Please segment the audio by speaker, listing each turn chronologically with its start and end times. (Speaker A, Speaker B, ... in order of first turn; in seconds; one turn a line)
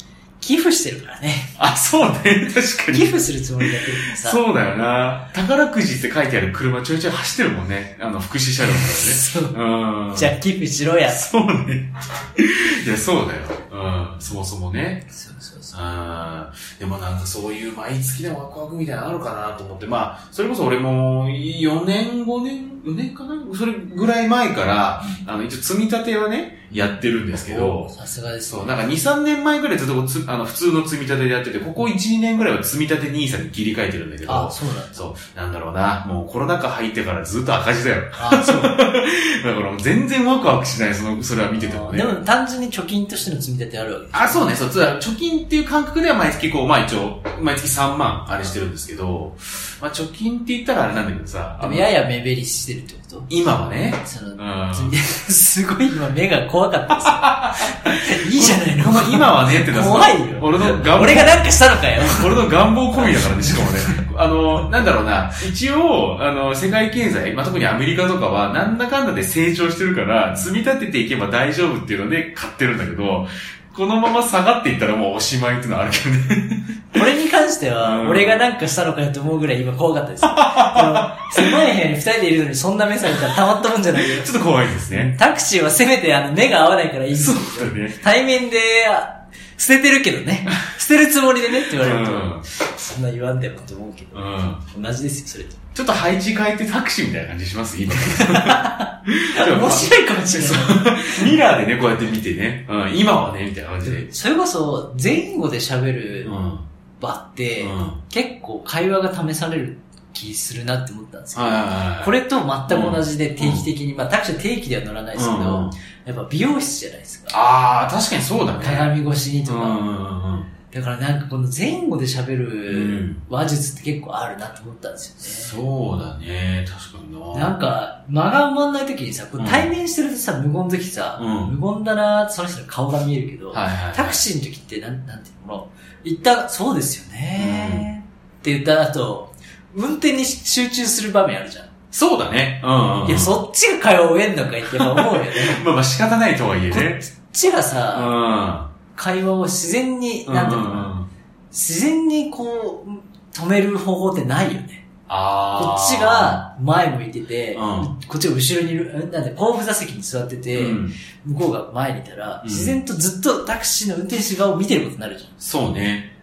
Speaker A: 0.4-1.5
Speaker B: 1.6-10.3
Speaker A: 2.9-4.4
Speaker A: 8.6-9.6
Speaker A: 10.1-11.2
Speaker B: 11.1-15.1
Speaker A: 15.1-15.8
Speaker B: 15.7-27.9
Speaker A: 25.0-25.2
Speaker A: 26.7-28.8
Speaker B: 28.5-42.1
Speaker A: 34.2-35.0
Speaker A: 38.2-38.8
Speaker A: 41.6-44.6
Speaker B: 44.1-51.9
Speaker A: 51.6-53.3
Speaker B: 53.3-55.0
Speaker A: 54.0-62.4
Speaker B: 57.0-77.0
Speaker A: 63.0-64.0
Speaker A: 76.9-84.4
Speaker B: 77.8-78.4
Speaker B: 80.2-81.5
Speaker B: 83.9-85.1
Speaker A: 84.9-95.6
Speaker B: 87.1-88.0
Speaker B: 91.7-92.5
Speaker B: 94.1-94.6
Speaker B: 95.7-104.1
Speaker A: 98.0-101.4
Speaker A: 103.8-106.3
Speaker B: 106.2-106.7
Speaker A: 107.0-117.3
Speaker B: 107.6-108.0
Speaker B: 111.3-112.1
Speaker B: 112.7-113.7
Speaker B: 115.1-115.7
Speaker B: 117.3-118.9
Speaker A: 118.6-119.8
Speaker B: 119.5-120.5
Speaker A: 120.7-125.5
Speaker B: 122.7-123.2
Speaker B: 125.2-127.5
Speaker A: 127.3-141.7
Speaker B: 129.4-129.7
Speaker B: 131.2-131.5
Speaker B: 133.5-134.2
Speaker B: 137.4-137.9
Speaker B: 141.9-143.3
Speaker A: 143.0-145.6
Speaker B: 144.7-147.0
Speaker A: 146.7-148.1
Speaker B: 147.9-148.7
Speaker A: 148.9-150.9
Speaker B: 150.3-151.1
Speaker A: 151.5-154.8
Speaker B: 155.1-156.4
Speaker A: 155.6-165.3
Speaker B: 157.5-157.9
Speaker B: 160.5-160.9
Speaker B: 162.4-162.8
Speaker B: 165.4-166.1